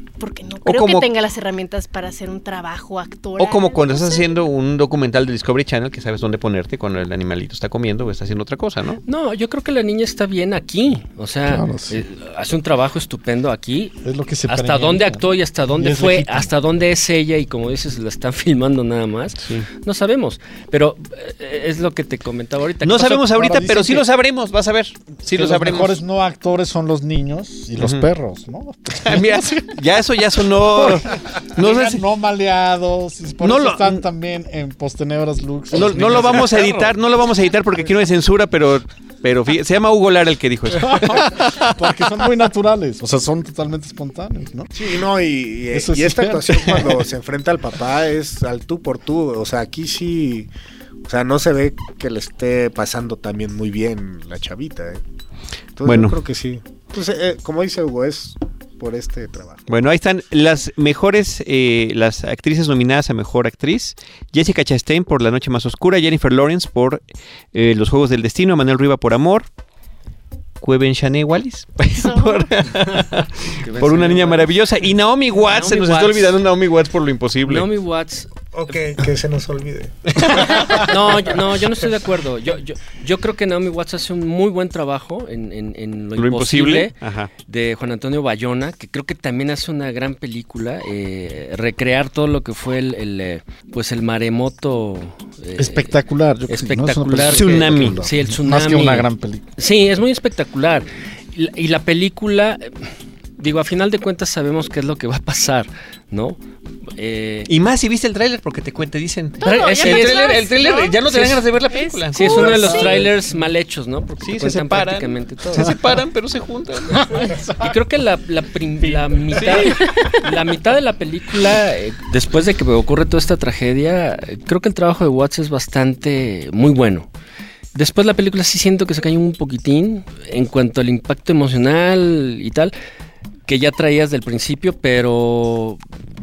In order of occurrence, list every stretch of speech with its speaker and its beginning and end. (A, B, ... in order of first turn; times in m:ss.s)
0:00.2-0:04.4 A
0:00.6-0:01.1 B
0:03.4-0:09.0 B
0:09.1-0:23.7 C
0:11.5-0:12.0 D
0:14.0-0:16.5 D
0:22.8-0:26.0 B
0:23.4-0:24.0 D
0:25.3-0:29.4 D
0:27.8-0:28.0 B
0:29.0-0:32.0 B
0:30.8-0:36.6 D
0:33.4-0:34.0 B
0:35.7-0:41.9 B
0:36.0-0:36.9 C
0:40.8-0:44.8 D
0:44.8-0:50.5 E
0:45.7-0:47.0 D
0:51.1-0:55.0 E
0:55.8-0:59.7 E
0:55.8-0:56.2 B
0:59.7-1:09.5 B
1:10.6-1:17.7 B
1:12.0-1:12.5 A
1:13.5-1:14.5 C
1:15.4-1:16.4 C
1:17.5-1:18.8 C
1:18.5-1:20.8 E
1:20.1-1:20.8 B
1:20.4-1:36.0 C
1:26.2-1:27.3 B
1:35.6-1:39.5 D
1:36.5-1:47.5 C
1:37.2-1:38.0 B
1:47.5-1:52.9 B
1:49.4-1:50.4 C
1:49.4-1:51.0 A
1:51.1-1:51.4 C
1:51.7-1:53.0 A
1:52.1-1:55.8 C
1:52.6-1:53.1 E
1:54.2-1:57.0 B
1:56.9-1:57.8 D
1:57.6-2:07.1 C
1:58.8-2:00.1 D
1:59.7-2:00.2 A
2:07.8-2:12.7 C
2:13.5-2:15.8 C